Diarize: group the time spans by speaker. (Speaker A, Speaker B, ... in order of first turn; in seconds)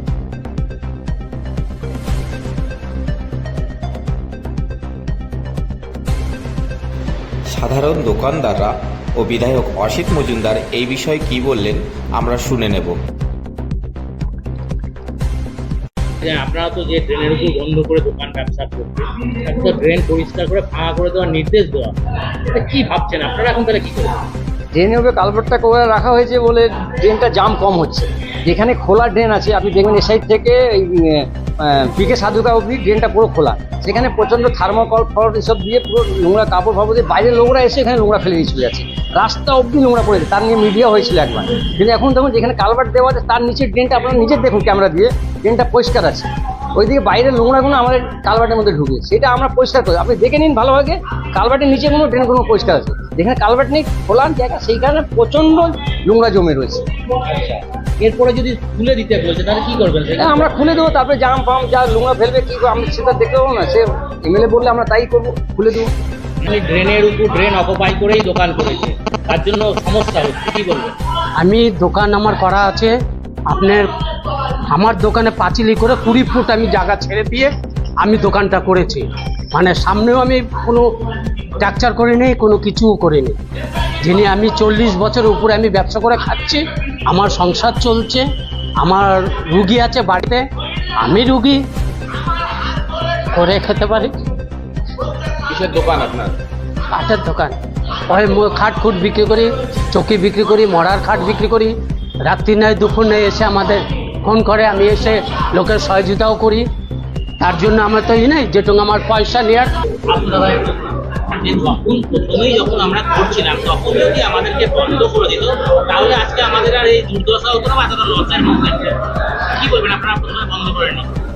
Speaker A: 7.5-13.0, 95.5-96.3
Speaker B: 16.2-22.0, 22.5-24.1, 57.3-60.5, 66.4-71.0, 110.1-119.0, 119.5-121.1
Speaker C: 24.7-56.8, 60.2-65.9
Speaker D: 71.4-73.0, 73.5-73.9, 74.7-80.8, 81.6-83.4, 84.0-88.2, 88.8-90.5, 91.0-91.6, 93.3-94.2, 97.0-97.6, 98.1-106.7, 107.4-109.7